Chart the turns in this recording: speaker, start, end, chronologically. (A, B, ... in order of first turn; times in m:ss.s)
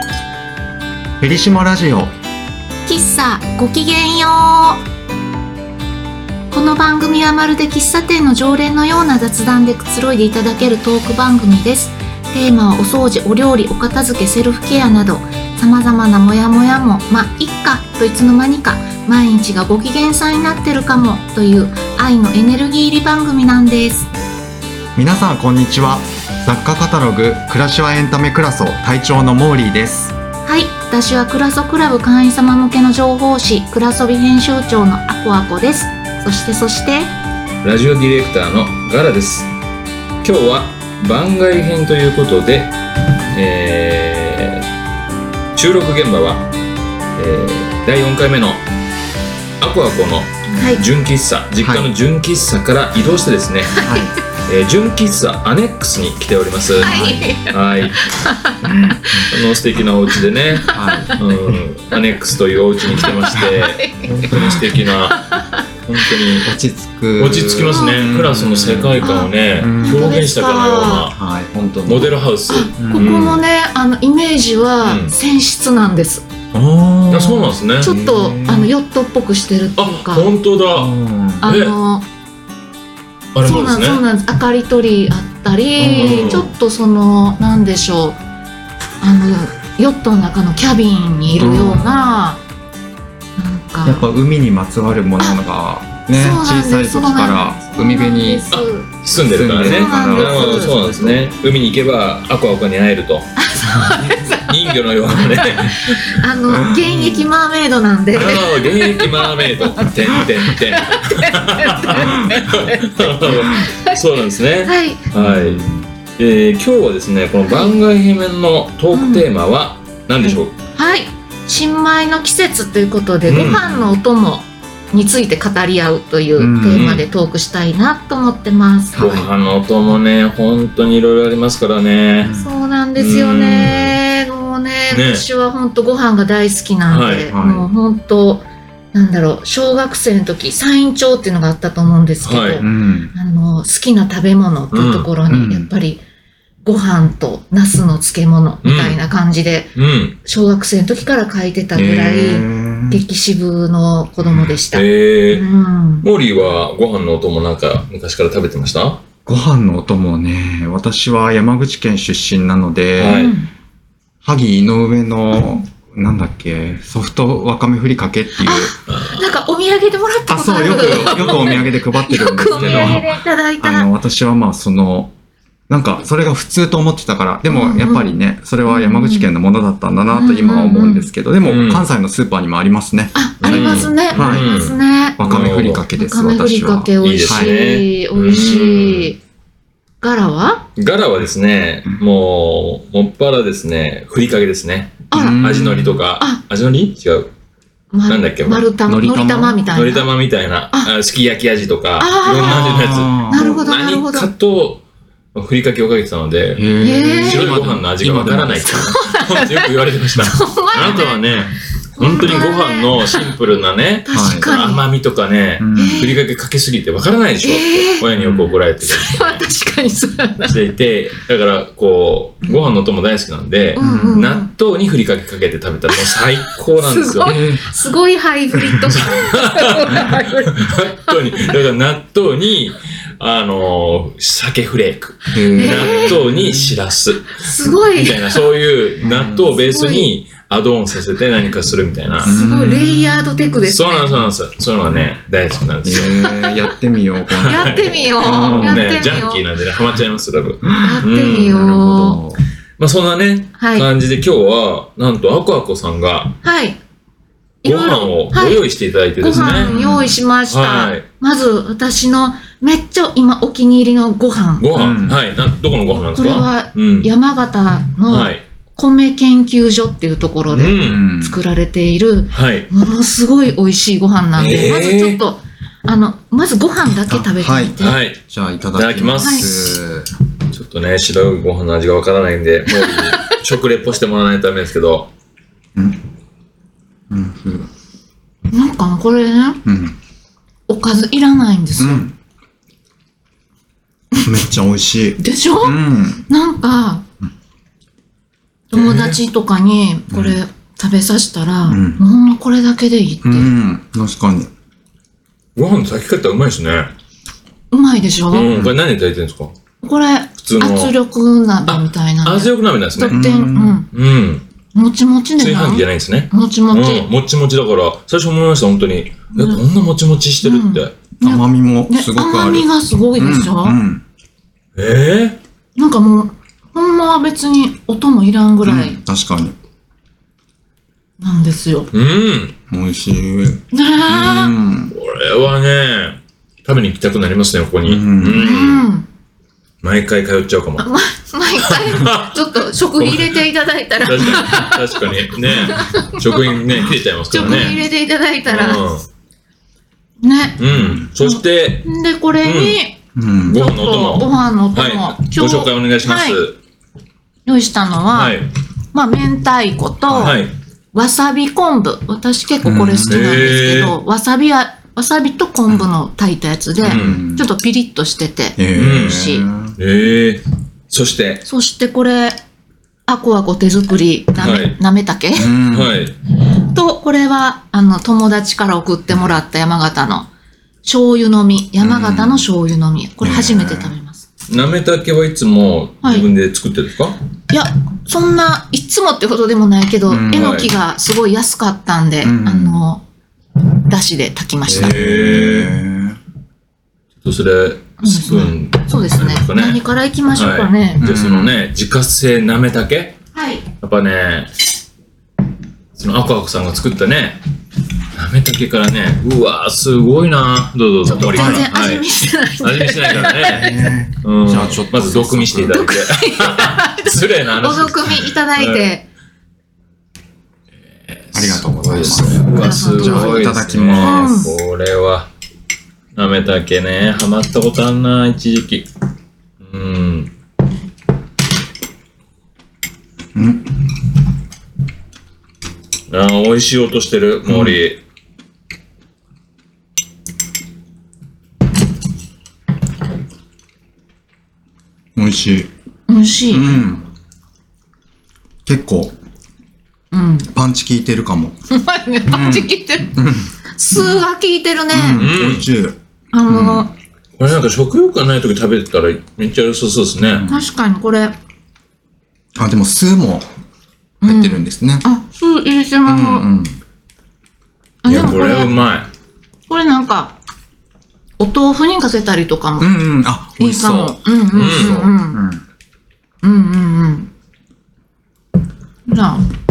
0:01.2-0:02.1 A
0:02.8-0:04.8 B
0:06.5-0:24.1 B
0:25.0-0:30.2 A
0:30.4-0:37.2 B
0:37.6-0:39.5 C
0:40.2-0:42.8 C
0:43.3-0:44.6 C
0:45.6-0:46.5 C
0:47.2-0:48.6 C
0:49.6-0:53.9 C
0:50.5-0:50.8 B
0:51.6-0:51.9 A
0:53.7-0:54.1 B
0:53.8-0:54.2 A
0:54.4-0:58.0 C
0:56.8-0:59.4 B
0:56.8-0:57.3 A
0:58.6-0:59.3 A
0:59.3-1:05.4 C
1:00.5-1:01.2 B
1:00.7-1:01.2 A
1:02.9-1:05.6 B
1:03.0-1:03.4 A
1:04.2-1:04.5 A
1:05.9-1:06.5 C
1:06.4-1:10.2 A
1:07.2-1:11.2 C
1:07.7-1:08.0 B
1:09.0-1:11.1 B
1:11.1-1:12.1 A
1:11.8-1:13.4 C
1:12.5-1:16.3 B
1:12.8-1:13.4 A
1:14.8-1:15.2 C
1:16.5-1:18.7 A
1:17.1-1:17.9 C
1:17.8-1:20.3 B
1:19.8-1:20.9 C
1:20.7-1:21.5 A
1:21.4-1:22.1 B
1:21.4-1:21.8 C
1:23.4-1:24.0 C
1:23.4-1:28.2 B
1:25.8-1:26.5 A
1:25.9-1:26.5 C
1:29.0-1:32.4 B
1:31.4-1:31.9 A
1:33.4-1:34.1 B
1:33.8-1:38.5 A
1:36.1-1:38.9 B
1:38.5-1:43.3 C
1:39.3-1:41.2 A
1:39.6-1:41.1 B
1:43.4-1:44.8 B
1:43.8-1:46.2 C
1:45.5-1:54.0 B
1:46.5-1:47.3 A
1:48.1-1:55.6 C
1:52.0-1:52.3 A
1:54.6-1:55.1 B
1:55.2-1:55.9 A
1:56.2-2:00.5 C
1:57.5-1:57.8 B
1:58.9-1:59.3 B
2:00.2-2:09.2 B
2:03.3-2:03.8 C
2:03.3-2:03.7 A
2:06.4-2:07.0 A
2:06.7-2:07.0 C
2:08.9-2:09.3 A
2:09.0-2:12.3 C
2:12.2-2:12.5 A
2:12.4-2:26.0 B
2:13.0-2:14.0 C
2:14.9-2:15.2 C
2:16.9-2:17.3 C
2:17.3-2:17.7 A
2:22.2-2:22.6 C
2:22.6-2:23.1 A
2:24.7-2:25.1 C
2:25.3-2:25.7 A
2:26.6-2:36.1 B
2:28.6-2:29.0 C
2:29.8-2:30.2 C
2:31.7-2:33.0 A
2:34.2-2:35.4 C
2:36.0-2:39.0 C
2:39.3-2:43.3 A
2:43.0-2:43.4 C
2:43.0-2:43.5 B
2:44.2-2:48.8 A
2:48.4-2:53.9 B
2:48.9-2:49.2 C
2:50.3-2:53.1 A
2:50.7-2:51.7 C
2:52.4-2:53.1 C
2:53.6-2:55.1 A
2:55.7-3:04.5 A
2:57.5-2:58.1 B
2:58.7-2:59.3 B
3:00.1-3:01.1 B
3:01.4-3:01.9 C
3:03.1-3:05.3 B
3:03.4-3:05.9 C
3:05.2-3:07.5 A
3:06.0-3:09.2 B
3:07.0-3:09.1 C
3:10.0-3:10.6 B
3:10.8-3:17.3 C
3:15.1-3:15.4 B
3:15.1-3:16.0 A
3:17.9-3:20.1 B
3:18.1-3:18.7 C
3:18.9-3:19.6 A
3:19.7-3:24.8 C
3:22.0-3:24.3 B
3:22.3-3:23.5 A
3:25.4-3:39.4 C
3:26.6-3:28.9 A
3:26.8-3:27.5 B
3:28.8-3:33.2 B
3:34.1-3:34.9 B
3:34.1-3:34.5 A
3:35.6-3:36.1 A
3:35.7-3:36.2 B
3:37.4-3:38.1 B
3:38.2-3:38.6 A
3:38.8-3:40.6 B
3:40.5-3:47.5 C
3:43.8-3:44.5 B
3:43.8-3:44.3 A
3:45.9-3:46.2 B
3:46.8-3:51.2 B
3:47.2-3:47.7 A
3:48.6-3:48.9 A
3:49.0-4:02.4 C
3:55.4-3:56.7 A
3:55.4-3:56.2 B
3:57.4-3:58.4 B
3:59.0-3:59.6 A
3:59.6-4:00.1 B
4:02.2-4:03.5 A
4:02.2-4:04.3 B
4:03.6-4:06.3 C
4:05.8-4:09.2 A
4:06.0-4:06.7 B
4:07.3-4:11.7 C
4:07.4-4:09.5 B
4:10.6-4:12.4 A
4:10.8-4:12.2 B
4:12.8-4:16.4 C
4:13.6-4:13.9 B
4:16.4-4:16.8 B
4:17.6-4:18.7 B
4:17.6-4:19.8 C
4:19.2-4:24.7 B
4:19.3-4:20.2 A
4:20.4-4:21.1 C
4:24.6-4:27.1 C
4:24.7-4:25.2 A
4:26.2-4:38.0 B
4:28.1-4:28.4 C
4:30.5-4:31.0 C
4:30.8-4:31.4 A
4:32.3-4:32.7 C
4:34.3-4:35.2 C
4:37.0-4:40.1 A
4:37.8-4:38.2 C
4:38.8-4:39.8 C
4:39.2-4:39.5 B
4:40.5-4:45.1 C
4:42.7-4:43.4 B
4:45.8-4:46.0 A
4:47.1-4:47.7 A
4:48.5-4:49.6 B
4:49.6-4:50.0 A
4:50.7-4:52.1 B
4:51.8-4:52.2 A
4:54.2-4:56.2 A
4:55.2-4:57.0 B
4:58.7-5:03.5 B
4:58.7-4:59.2 C
5:00.1-5:00.4 A
5:01.7-5:02.0 A
5:03.2-5:04.5 A
5:05.6-5:06.9 C
5:07.7-5:08.5 B
5:08.3-5:09.5 C
5:08.5-5:08.7 A
5:09.8-5:13.9 B
5:10.4-5:10.9 C
5:11.7-5:14.4 C
5:13.1-5:13.8 A
5:14.7-5:17.1 B
5:15.4-5:20.9 C
5:19.4-5:19.6 B
5:20.4-5:23.8 B
5:21.2-5:24.0 A
5:24.8-5:25.4 C
5:25.8-5:29.0 B
5:28.6-5:29.6 A
5:31.2-5:31.9 B
5:31.9-5:32.5 C
5:32.7-5:34.9 A
5:33.7-5:34.6 B
5:34.9-5:38.9 C
5:37.8-5:38.5 A
5:38.3-5:39.1 B
5:39.8-5:40.9 C
5:40.8-5:46.6 B
5:41.6-5:43.5 C
5:44.0-5:47.8 C
5:47.3-5:48.8 B
5:47.4-5:47.7 A
5:48.5-5:49.1 C
5:50.2-5:50.6 B
5:50.6-5:51.9 C
5:50.7-5:51.1 A
5:51.2-5:53.0 B
5:52.4-5:52.8 C
5:53.2-5:53.6 A
5:53.4-5:56.6 C
5:53.5-5:56.4 B
5:57.4-6:09.5 B
5:58.1-5:58.5 C
6:00.1-6:00.4 A
6:00.2-6:00.5 C
6:02.6-6:03.5 A
6:03.1-6:04.0 C
6:06.8-6:07.2 C
6:06.8-6:07.5 A
6:08.6-6:09.8 A
6:08.7-6:11.5 C
6:11.4-6:12.4 B
6:13.1-6:15.5 B
6:14.4-6:14.8 C
6:15.3-6:16.0 A
6:15.7-6:16.2 C
6:16.6-6:20.3 B
6:20.8-6:24.3 B
6:21.8-6:22.5 A
6:23.2-6:24.0 A
6:24.5-6:27.2 C
6:26.0-6:26.3 B
6:27.5-6:33.0 B
6:30.1-6:30.7 A
6:30.3-6:30.7 C
6:32.2-6:32.8 A
6:33.9-6:35.0 B
6:34.6-6:36.2 A
6:34.7-6:35.8 C
6:37.2-6:43.2 C
6:38.0-6:41.0 B
6:41.0-6:41.6 A
6:43.3-6:43.6 B
6:43.8-6:44.5 C
6:46.0-6:47.4 C
6:48.1-6:52.1 C
6:51.1-6:53.9 B
6:51.2-6:51.7 A
6:52.6-6:58.9 C
6:53.2-6:55.9 A
6:55.7-6:59.1 B
7:01.1-7:05.3 C
7:01.3-7:04.5 A
7:02.6-7:04.5 B
7:06.2-7:08.9 C
7:09.6-7:10.3 C
7:13.4-7:13.9 A
7:16.1-7:18.0 C
7:17.5-7:17.8 A
7:25.2-7:25.7 A
7:26.1-7:26.9 B
7:26.5-7:27.0 A
7:28.7-7:29.2 A
7:30.1-7:30.5 B
7:30.5-7:31.6 A
7:31.7-7:33.2 B
7:32.3-7:34.2 A
7:33.8-7:35.3 B
7:34.9-7:36.0 A
7:35.1-7:35.7 C
7:36.3-7:36.9 B
7:36.5-7:36.9 A
7:37.4-7:40.4 C
7:40.2-7:40.7 A
7:40.4-7:41.4 B
7:42.6-7:43.5 A
7:44.2-7:46.5 B
7:44.2-7:45.1 A
7:46.0-7:46.8 A
7:48.0-7:48.8 B
7:48.0-7:49.1 C
7:49.7-7:50.4 B
7:51.4-7:53.0 B
7:52.8-7:55.6 A
7:53.6-7:55.4 B
7:54.5-7:55.0 C
7:56.4-7:57.3 B
7:59.1-7:59.5 B